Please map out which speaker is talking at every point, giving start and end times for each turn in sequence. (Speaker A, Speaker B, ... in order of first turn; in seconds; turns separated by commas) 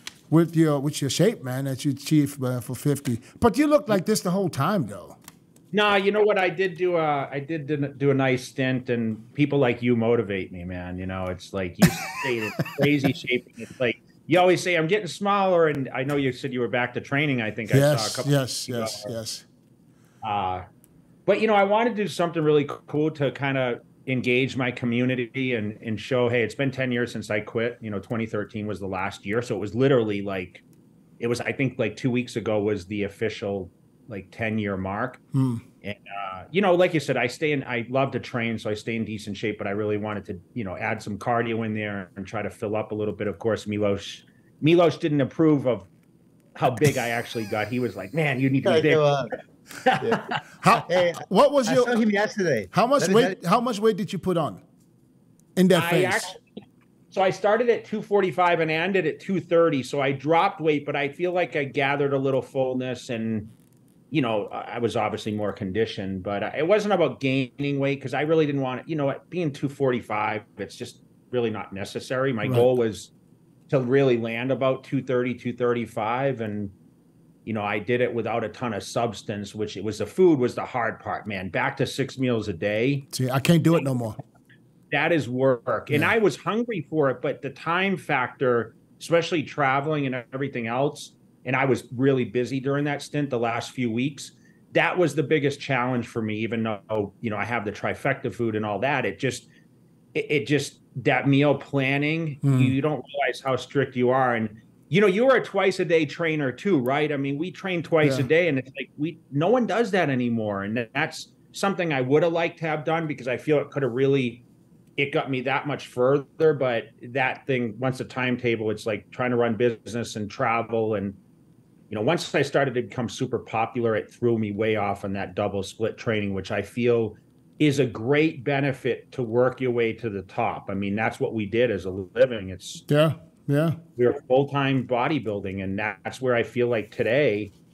Speaker A: 0.3-5.2, Speaker B: 5.7-19.1, Speaker A: 17.7-19.4, Speaker B: 20.2-20.6, Speaker B: 21.2-30.6, Speaker B: 31.2-35.2, Speaker A: 35.3-35.6, Speaker B: 35.8-45.9, Speaker B: 46.5-49.1, Speaker C: 48.6-49.3, Speaker B: 49.8-50.8, Speaker C: 50.0-50.2, Speaker A: 50.6-52.0, Speaker C: 50.9-53.3, Speaker A: 52.7-54.6, Speaker A: 55.5-56.3, Speaker B: 55.7-56.6, Speaker B: 57.1-63.5, Speaker B: 64.1-73.1, Speaker A: 72.4-72.7, Speaker B: 73.7-76.7, Speaker B: 77.4-83.1, Speaker A: 83.1-84.2, Speaker B: 84.9-99.5, Speaker B: 100.1-114.4, Speaker A: 102.4-102.8, Speaker A: 108.0-108.3, Speaker B: 115.0-121.2, Speaker B: 121.9-132.8, Speaker A: 132.9-133.8, Speaker B: 134.0-137.5